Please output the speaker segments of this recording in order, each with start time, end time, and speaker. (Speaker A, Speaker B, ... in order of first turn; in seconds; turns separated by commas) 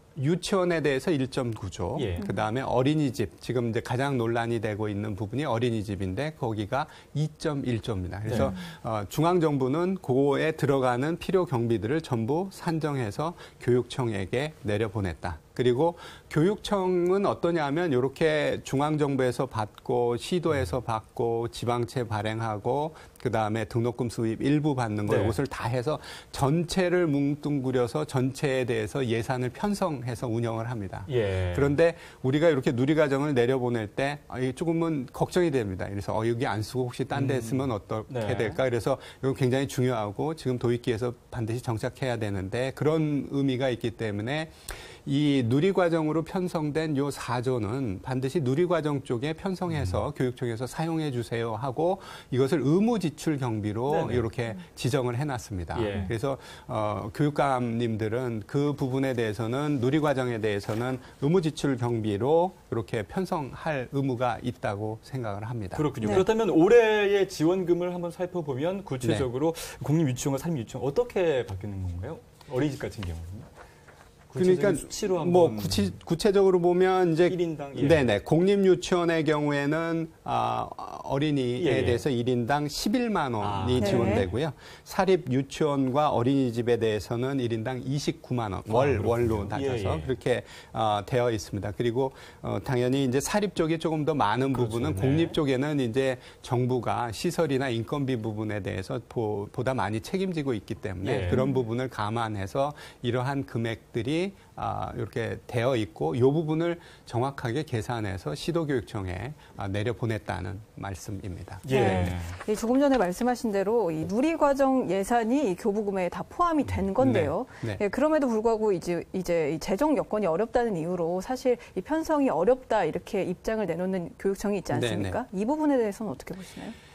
Speaker A: 0.1-66.2, Speaker B: 1.9-2.3, Speaker C: 2.2-2.5, Speaker B: 8.2-8.5, Speaker C: 8.3-8.7, Speaker B: 25.1-25.4, Speaker B: 31.1-31.7, Speaker B: 37.1-38.6, Speaker B: 49.7-50.0, Speaker B: 53.9-54.3, Speaker B: 55.7-56.1, Speaker B: 65.7-73.5, Speaker B: 74.3-76.0, Speaker A: 74.3-112.1, Speaker B: 77.2-78.1, Speaker B: 81.6-82.0, Speaker B: 83.4-84.4, Speaker C: 83.8-84.2, Speaker B: 88.7-90.1, Speaker B: 94.5-95.4, Speaker B: 101.0-101.4, Speaker C: 101.3-101.6, Speaker B: 111.6-112.4, Speaker C: 111.7-126.7, Speaker A: 117.0-117.8, Speaker A: 124.7-125.2